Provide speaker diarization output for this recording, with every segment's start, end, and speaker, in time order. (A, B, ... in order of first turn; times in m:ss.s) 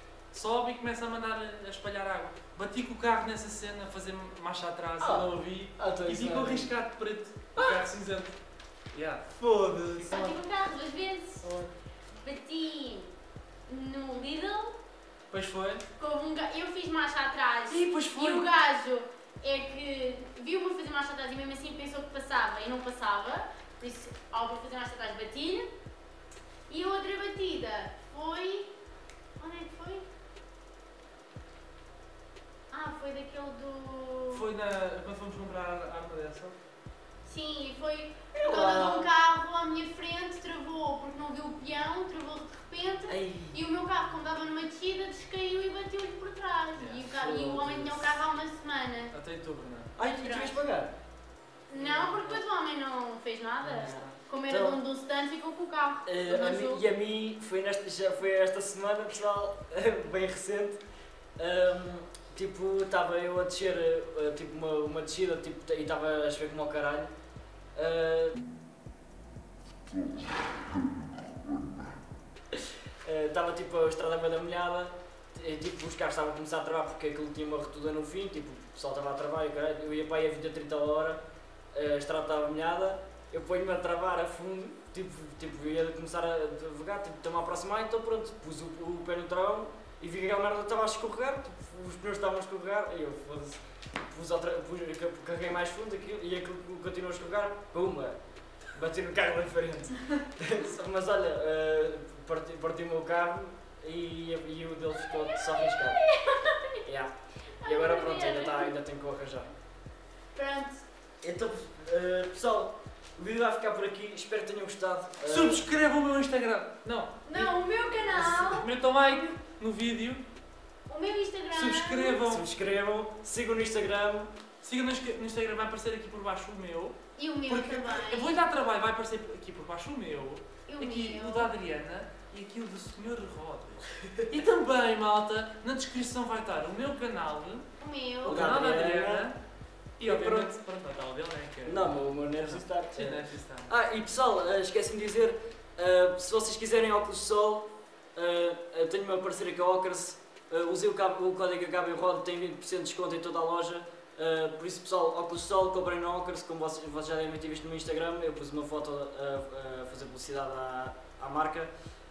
0:00.3-0:08.3 A
0:05.0-0:06.7 B
0:07.6-0:07.8 B
0:08.9-0:09.2 A
0:09.4-0:10.4 B
0:10.1-0:11.4 C
0:11.4-0:11.7 A
0:12.2-0:13.1 C
0:13.7-0:14.8 C
0:15.3-0:15.8 A
0:16.0-0:25.7 C
0:17.7-0:18.5 A
0:26.7-0:28.7 C
0:29.4-0:30.1 C
0:32.7-0:34.4 C
0:34.3-0:36.6 A
0:37.3-0:49.1 C
0:38.3-0:39.1 B
0:43.1-0:43.6 B
0:46.8-0:47.1 A
0:47.1-0:48.2 B
0:49.1-0:49.9 A
0:50.0-0:50.9 B
0:50.0-0:50.6 C
0:51.7-0:56.8 C
0:51.8-0:52.4 A
0:53.6-0:54.1 A
0:53.8-0:54.8 B
0:56.0-1:00.8 B
1:01.4-1:07.1 B
1:07.8-1:08.4 B
1:13.0-1:38.2 B
1:38.7-1:46.0 B
1:45.1-1:46.8 C
1:46.8-1:47.1 B
1:47.6-1:48.7 C
1:47.6-1:49.5 B
1:50.3-1:50.8 C
1:51.2-1:55.6 B
1:55.2-1:57.5 A
1:57.2-1:59.3 C
1:58.1-2:00.2 A
2:00.9-2:02.2 C
2:01.5-2:02.5 A
2:02.2-2:04.3 B
2:04.6-2:17.7 A
2:07.2-2:08.4 C
2:10.7-2:11.5 C
2:17.8-2:18.6 C
2:18.2-2:19.4 A
2:18.2-2:19.3 B
2:20.0-2:23.7 A
2:20.0-2:20.5 B
2:21.6-2:41.7 B